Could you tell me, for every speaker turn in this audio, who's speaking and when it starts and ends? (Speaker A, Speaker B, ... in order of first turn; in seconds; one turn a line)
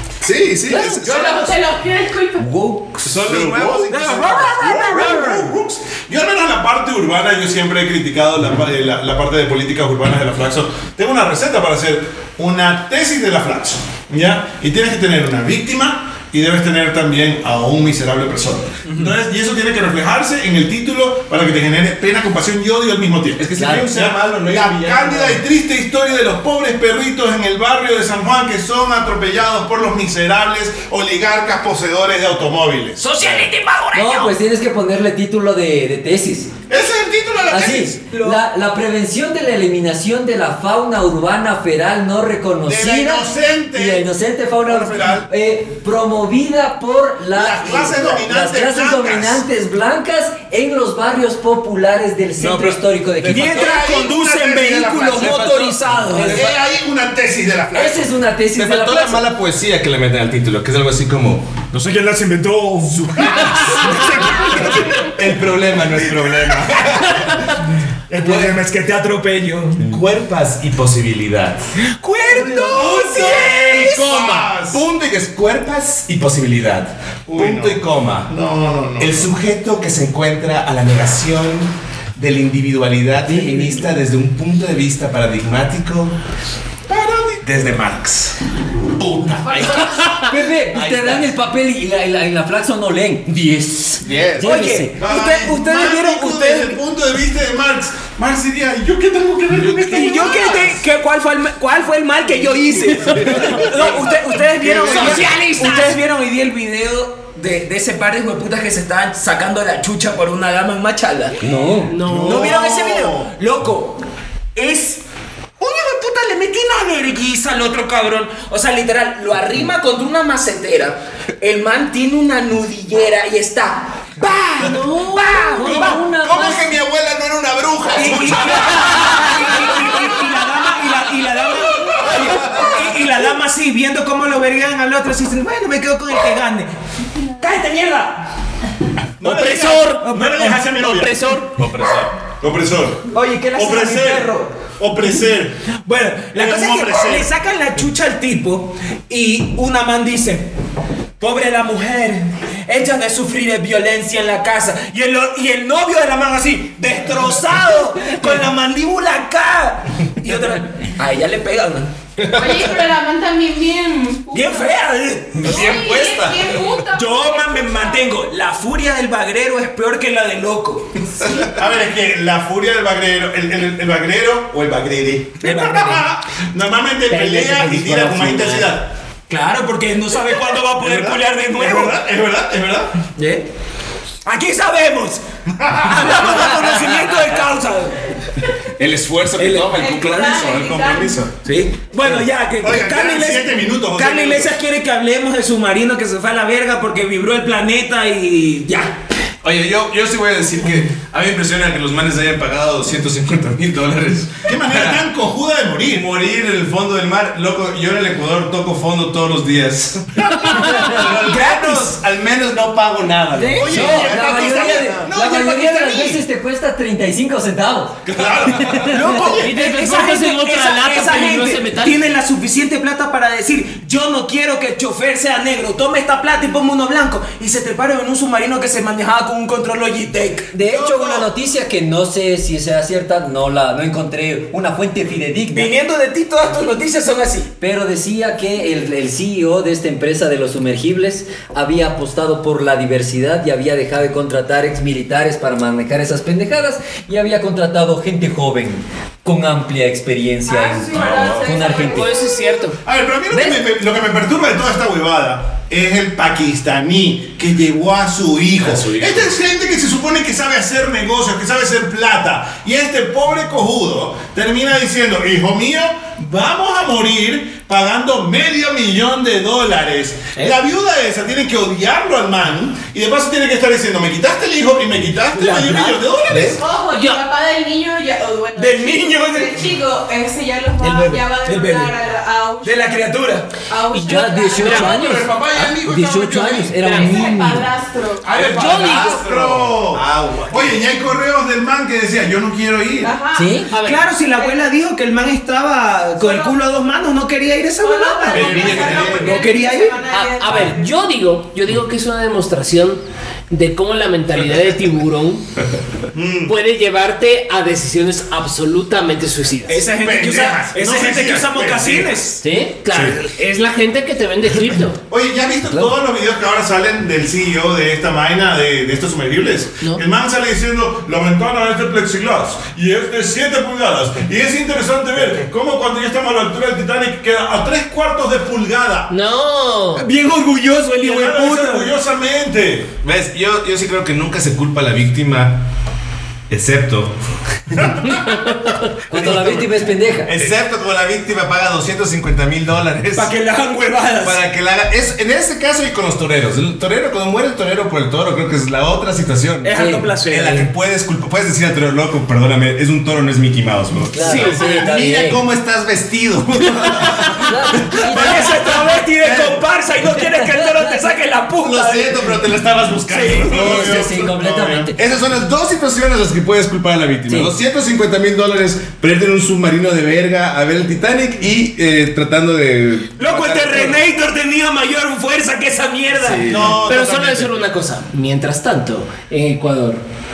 Speaker A: 0.2-1.6
Speaker B: 0.7-2.5
Speaker C: 2.4-3.4
Speaker A: 3.0-4.6
Speaker D: 3.2-33.2
Speaker E: 3.9-5.5
Speaker A: 23.4-25.4
Speaker C: 23.6-23.9
Speaker E: 33.0-34.3
Speaker C: 33.9-36.5
Speaker D: 36.7-38.0
Speaker C: 37.5-53.8
Speaker E: 38.1-38.4
Speaker D: 42.7-44.0
Speaker D: 44.6-45.3
Speaker D: 47.3-49.4
Speaker A: 52.4-53.5
Speaker E: 53.2-56.5
Speaker D: 53.4-55.4
Speaker A: 55.1-56.5
Speaker D: 56.1-58.0
Speaker C: 56.1-56.5
Speaker C: 57.7-59.2
Speaker A: 58.5-61.7
Speaker D: 61.7-65.0
Speaker A: 62.9-67.5
Speaker D: 68.1-68.5
Speaker E: 68.2-69.8
Speaker A: 68.2-68.5
Speaker A: 69.8-71.6
Speaker E: 71.8-74.5
Speaker D: 72.3-74.8
Speaker A: 74.7-78.3
Speaker D: 77.3-79.3
Speaker A: 79.0-86.1
Speaker C: 83.3-83.8
Speaker D: 86.9-87.7
Speaker A: 87.4-88.3
Speaker D: 89.0-89.6
Speaker A: 89.4-91.3
Speaker F: 89.8-90.3
Speaker C: 90.2-94.9
Speaker A: 94.0-94.6
Speaker E: 94.4-96.8
Speaker D: 95.0-100.8
Speaker A: 99.6-100.3
Speaker E: 99.9-111.4
Speaker F: 103.1-103.6
Speaker D: 103.2-105.4
Speaker F: 104.9-105.9
Speaker C: 111.4-112.0
Speaker F: 111.9-112.6
Speaker D: 112.0-113.3
Speaker E: 112.2-114.0
Speaker E: 114.5-115.0
Speaker E: 115.6-126.0
Speaker C: 125.5-126.7
Speaker A: 125.5-129.0
Speaker E: 127.9-136.7
Speaker A: 132.2-132.7
Speaker E: 137.4-138.3
Speaker D: 139.2-141.2
Speaker F: 139.2-141.6
Speaker E: 140.0-140.6
Speaker A: 141.6-142.2
Speaker D: 142.3-145.6
Speaker E: 143.1-144.5
Speaker E: 145.8-150.5
Speaker D: 146.3-147.3
Speaker E: 151.2-162.2
Speaker B: 162.3-164.7
Speaker E: 164.3-165.6
Speaker A: 165.4-166.6
Speaker B: 165.4-168.1
Speaker E: 166.9-171.0
Speaker A: 171.2-171.5
Speaker D: 171.4-178.9
Speaker E: 175.4-176.1
Speaker C: 177.1-178.7
Speaker E: 179.3-182.0
Speaker D: 180.8-182.9
Speaker E: 183.2-183.4
Speaker E: 184.2-185.2
Speaker D: 185.5-186.4
Speaker E: 185.8-188.1
Speaker A: 188.8-191.4
Speaker E: 189.4-190.2
Speaker B: 189.7-191.2
Speaker E: 191.4-199.0
Speaker D: 192.6-194.6
Speaker A: 199.4-205.0
Speaker D: 204.4-206.1
Speaker A: 205.8-215.0
Speaker F: 210.4-210.8
Speaker E: 211.0-211.9
Speaker E: 213.3-213.9
Speaker D: 213.6-216.2
Speaker C: 213.7-218.0
Speaker A: 218.1-218.9
Speaker D: 218.1-219.4
Speaker C: 218.6-219.2
Speaker E: 218.8-231.3
Speaker F: 219.2-222.0
Speaker C: 230.5-235.7
Speaker E: 235.5-237.5
Speaker C: 237.6-252.1
Speaker B: 250.5-252.7
Speaker A: 250.9-251.7
Speaker F: 251.8-252.8
Speaker D: 252.8-276.6
Speaker C: 253.3-253.6
Speaker A: 258.6-259.3
Speaker E: 275.3-276.0
Speaker A: 276.3-276.6
Speaker B: 276.5-283.0
Speaker F: 276.9-277.2
Speaker E: 278.6-279.6
Speaker E: 280.8-281.9
Speaker E: 282.6-283.5
Speaker B: 283.7-285.2
Speaker C: 283.9-287.7
Speaker F: 284.5-285.0
Speaker D: 284.8-286.7
Speaker B: 286.8-288.4
Speaker F: 286.8-287.1
Speaker D: 288.2-293.1
Speaker A: 288.3-290.8
Speaker F: 288.3-289.2
Speaker B: 293.0-293.6
Speaker C: 293.3-293.7
Speaker F: 293.7-294.0
Speaker E: 293.7-300.0
Speaker B: 294.3-294.7
Speaker B: 296.2-296.6
Speaker B: 297.8-301.0
Speaker A: 298.3-299.4
Speaker D: 298.3-299.2
Speaker F: 300.1-305.4
Speaker D: 306.1-306.5
Speaker F: 306.4-309.8
Speaker E: 309.7-312.4
Speaker D: 310.0-312.1
Speaker F: 312.4-315.0
Speaker D: 315.1-329.1
Speaker F: 329.1-330.1
Speaker E: 329.9-331.9
Speaker D: 331.0-332.9
Speaker A: 333.0-335.6
Speaker A: 336.5-337.1
Speaker D: 337.8-338.6
Speaker C: 339.1-340.3
Speaker A: 339.1-343.3
Speaker E: 343.1-344.4
Speaker A: 344.2-358.6
Speaker E: 349.6-350.7
Speaker C: 349.7-350.0
Speaker C: 354.1-355.4
Speaker E: 354.2-354.6
Speaker C: 357.4-358.8
Speaker E: 357.9-362.3
Speaker A: 359.2-359.6
Speaker C: 360.4-361.0
Speaker A: 361.6-364.1
Speaker E: 363.1-363.9
Speaker D: 363.4-364.9
Speaker C: 363.5-365.0
Speaker A: 364.9-374.0
Speaker C: 367.3-367.5
Speaker E: 373.2-376.6
Speaker A: 376.1-376.9
Speaker D: 376.5-377.5
Speaker F: 376.8-380.0